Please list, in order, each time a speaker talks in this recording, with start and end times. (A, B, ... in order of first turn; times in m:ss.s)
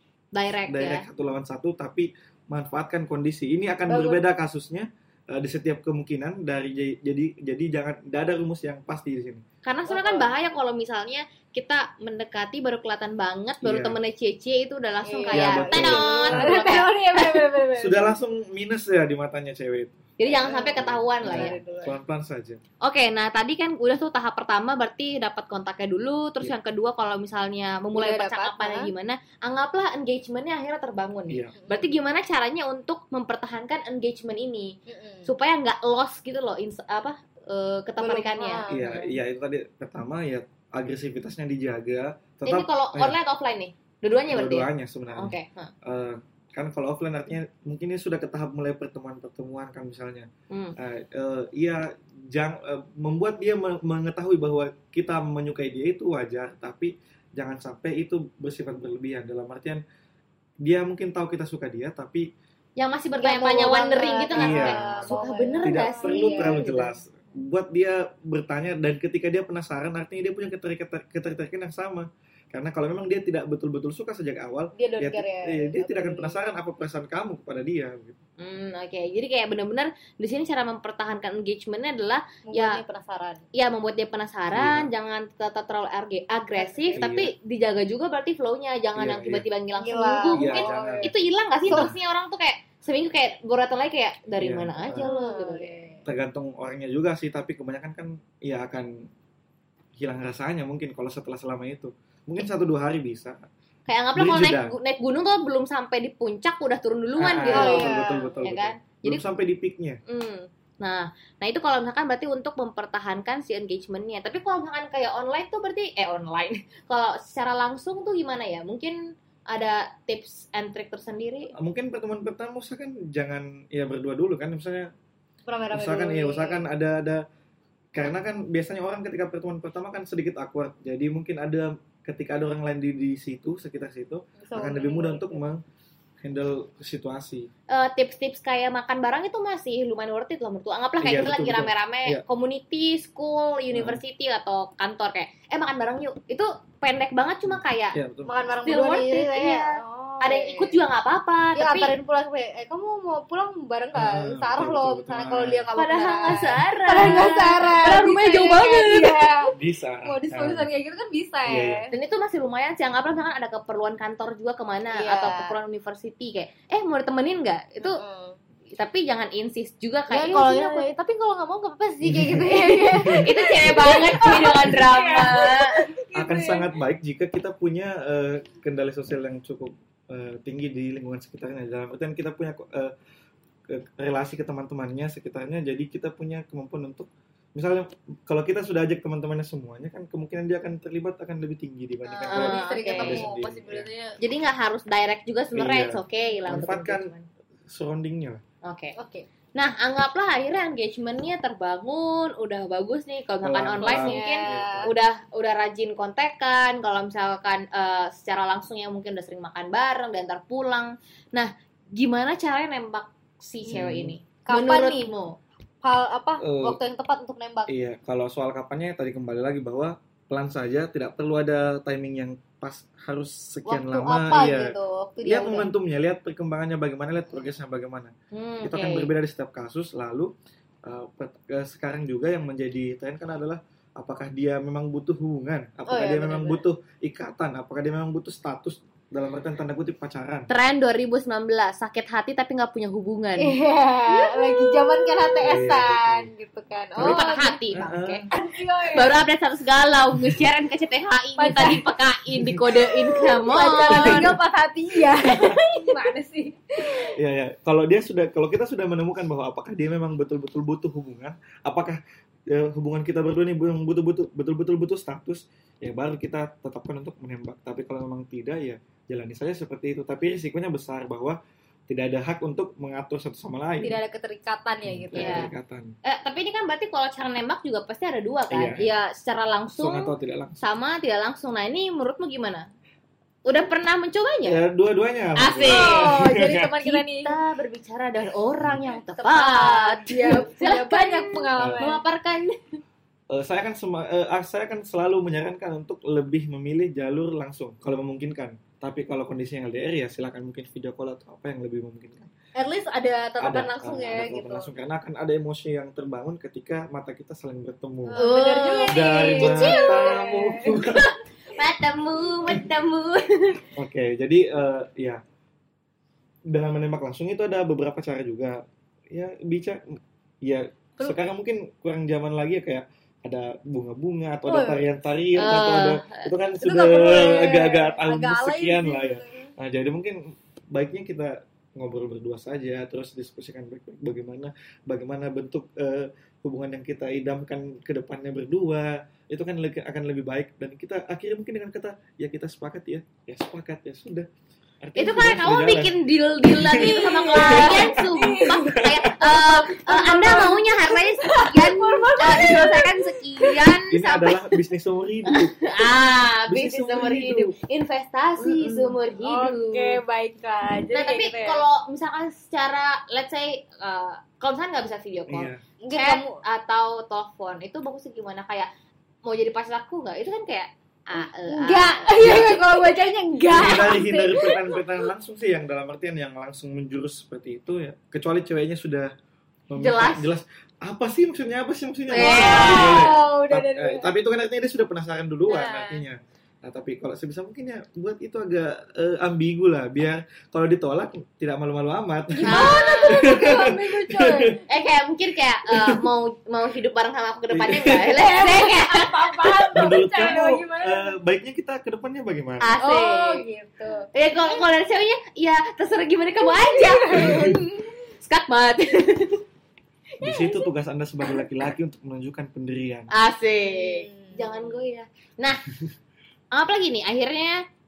0:00.3-0:01.1 A
0:00.7-0:09.4 B
0:03.9-0:04.2 C
0:09.6-0:17.6 A
0:09.9-0:10.3 C
0:13.6-0:14.0 B
0:15.0-0:18.2 C
0:15.3-0:16.8 B
0:17.8-0:20.1 B
0:20.2-0:21.6 A
0:20.2-0:22.0 C
0:20.8-0:22.6 B
0:22.8-0:34.7 A
0:27.9-0:28.9 C
0:31.3-0:31.5 B
0:31.6-0:31.9 C
0:34.9-0:35.3 C
0:35.3-0:38.7 A
0:38.0-0:39.2 C
0:38.7-0:43.2 B
0:42.4-0:45.7 A
0:44.3-0:59.8 B
0:50.5-0:50.8 A
1:00.6-1:02.2 B
1:02.8-1:07.0 A
1:03.2-1:06.8 C
1:04.4-1:18.2 B
1:14.7-1:16.5 C
1:18.4-1:22.8 A
1:22.5-1:23.4 C
1:23.5-1:35.7 A
1:24.5-1:24.9 B
1:26.6-1:27.0 C
1:26.9-1:27.3 B
1:29.0-1:29.5 B
1:29.8-1:31.1 C
1:30.4-1:31.1 B
1:31.7-1:32.0 B
1:34.4-1:35.1 B
1:34.8-1:36.1 C
1:36.1-1:38.9 B
1:40.0-1:43.4 B
1:43.9-1:49.2 A
1:44.2-1:44.8 B
1:47.2-1:50.0 B
1:47.5-1:48.4 C
1:50.1-1:59.0 A
1:59.5-2:01.5 A
2:01.6-2:04.9 B
2:05.5-2:06.7 C
2:05.7-2:07.2 B
2:08.0-2:15.6 B
2:14.4-2:15.4 C
2:16.2-2:17.5 B
2:17.7-2:28.0 A
2:21.0-2:22.2 B
2:23.7-2:24.0 B
2:27.5-2:28.5 B
2:28.2-2:30.8 C
2:28.6-2:32.0 A
2:31.5-2:41.9 C
2:33.9-2:35.7 B
2:35.8-2:39.4 A
2:39.5-2:40.7 B
2:41.4-2:41.9 B
2:41.9-2:48.0 A
2:44.9-2:45.6 C
2:47.8-2:48.4 C
2:48.8-2:50.9 A
2:50.1-2:56.8 C
2:52.0-2:54.4 B
2:52.5-2:55.9 A
2:56.1-3:02.9 B
3:03.7-3:13.9 B
3:12.1-3:14.2 C
3:12.3-3:13.3 A
3:14.2-3:17.3 A
3:15.5-3:17.1 B
3:17.7-3:18.4 B
3:18.6-3:18.9 A
3:19.0-3:19.3 C
3:19.6-3:35.3 A
3:23.4-3:25.0 B
3:23.8-3:24.9 C
3:33.7-3:34.2 B
3:34.5-3:35.1 C
3:35.8-3:37.7 C
3:36.4-3:36.8 B
3:37.7-3:48.1 B
3:43.6-3:45.7 C
3:48.3-3:49.1 A
3:48.6-3:50.3 B
3:50.8-4:00.5 B
3:55.9-3:56.6 C
4:00.5-4:03.6 A
4:03.4-4:07.6 C
4:04.1-4:05.3 A
4:05.4-4:06.3 B
4:07.0-4:08.2 B
4:07.0-4:08.3 A
4:08.3-4:09.2 C
4:08.9-4:14.3 A
4:11.4-4:11.8 C
4:13.1-4:17.1 C
4:13.9-4:14.3 B
4:17.2-4:34.0 B
4:33.8-4:35.5 C
4:34.9-4:35.9 B
4:35.1-4:35.5 A
4:36.0-4:42.7 A
4:38.5-4:38.9 B
4:39.8-4:40.6 B
4:43.5-4:44.6 A
4:44.4-4:46.7 B
4:45.4-4:52.6 A
4:45.7-4:47.3 C
4:48.9-4:52.0 C
4:51.6-4:51.9 B
4:53.3-5:02.3 B
5:02.6-5:04.7 C
5:03.4-5:08.2 B
5:08.0-5:10.8 C
5:08.2-5:10.2 A
5:08.9-5:11.1 B
5:10.8-5:13.6 A
5:13.8-5:15.2 B
5:16.5-5:18.6 B
5:19.1-5:19.8 B
5:20.4-5:44.3 B
5:24.4-5:25.0 C
5:25.4-5:26.3 A
5:26.6-5:29.5 C
5:44.8-5:48.0 B
5:45.0-5:54.6 A
5:46.8-5:53.7 C
5:48.7-5:49.1 B
5:53.9-5:55.6 B
5:55.3-6:00.0 A
5:56.5-5:57.5 B
5:58.4-5:59.0 B
5:59.2-6:01.6 C
6:00.9-6:08.7 A
6:05.3-6:05.6 B
6:05.8-6:06.4 C
6:09.3-6:12.9 A
6:11.2-6:15.1 C
6:13.5-6:19.1 B
6:19.7-6:34.6 B
6:19.7-6:20.4 A
6:22.1-6:23.2 A
6:22.1-6:24.1 C
6:25.5-6:25.8 C
6:25.7-6:26.0 A
6:32.4-6:34.6 C
6:32.4-6:33.7 A
6:34.6-6:39.9 A
6:37.5-6:38.3 B
6:38.1-6:41.1 C
6:39.7-6:42.7 B
6:42.6-6:43.4 A
6:42.8-6:44.6 C
6:44.1-6:47.4 A
6:46.4-6:47.9 C
6:47.1-6:47.6 B
6:48.1-6:49.4 A
6:50.2-6:50.5 A
6:50.2-6:53.1 B
6:53.1-6:55.7 A
6:53.6-6:54.8 C
6:56.5-6:57.6 A